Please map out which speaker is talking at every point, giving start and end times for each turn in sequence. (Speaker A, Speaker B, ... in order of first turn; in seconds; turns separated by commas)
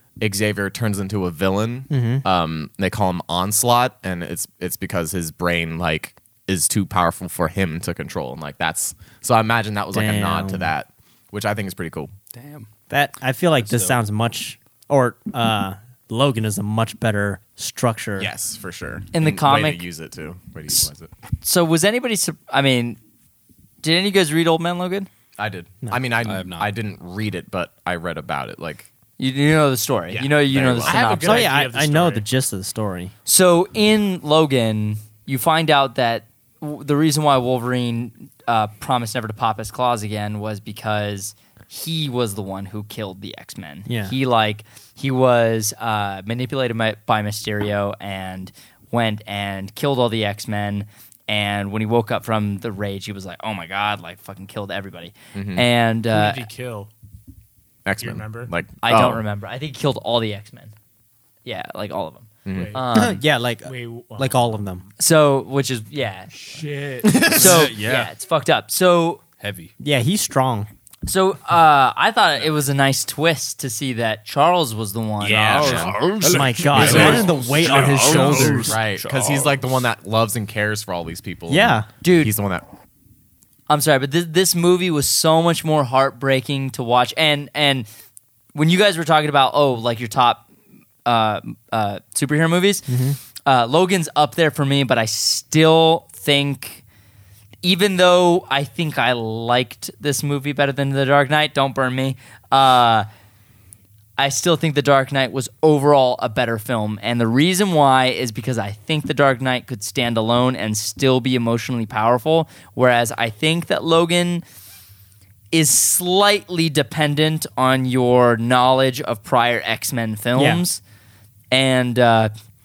Speaker A: 0.2-12.1, Speaker B: 1.9-2.2, Speaker B: 9.9-10.7, Speaker C: 12.3-12.7, Speaker B: 12.9-18.3, Speaker C: 13.6-13.9, Speaker A: 18.2-21.1, Speaker D: 19.1-19.8, Speaker D: 21.4-23.0, Speaker D: 23.8-25.1, Speaker A: 25.4-28.9, Speaker C: 26.2-26.7, Speaker D: 29.2-31.5, Speaker A: 30.1-31.0, Speaker E: 30.8-32.2, Speaker B: 31.2-33.1, Speaker D: 33.2-56.4, Speaker B: 43.9-44.1, Speaker A: 55.3-55.6, Speaker E: 56.1-56.9, Speaker A: 57.8-59.2, Speaker E: 58.0-58.5, Speaker D: 58.8-60.7, Speaker D: 61.5-63.2, Speaker A: 62.4-62.7, Speaker E: 62.5-62.8, Speaker B: 62.9-64.8, Speaker E: 63.6-64.6, Speaker D: 65.0-66.3, Speaker E: 66.3-67.2, Speaker A: 67.0-67.6, Speaker C: 67.2-68.1, Speaker D: 67.3-69.2, Speaker C: 69.4-69.7, Speaker B: 69.8-70.7, Speaker D: 71.0-76.3, Speaker C: 75.2-79.6, Speaker A: 75.2-76.0, Speaker B: 76.2-78.8, Speaker E: 76.6-78.7, Speaker A: 76.7-77.3, Speaker A: 78.6-82.7, Speaker B: 81.5-81.9, Speaker D: 82.0-82.3, Speaker D: 83.7-87.9, Speaker D: 88.5-90.4, Speaker D: 91.0-92.9, Speaker B: 92.9-93.2, Speaker D: 93.5-96.8, Speaker D: 97.6-103.1, Speaker D: 104.2-114.4, Speaker D: 115.5-120.8, Speaker B: 120.3-120.6, Speaker D: 121.5-122.3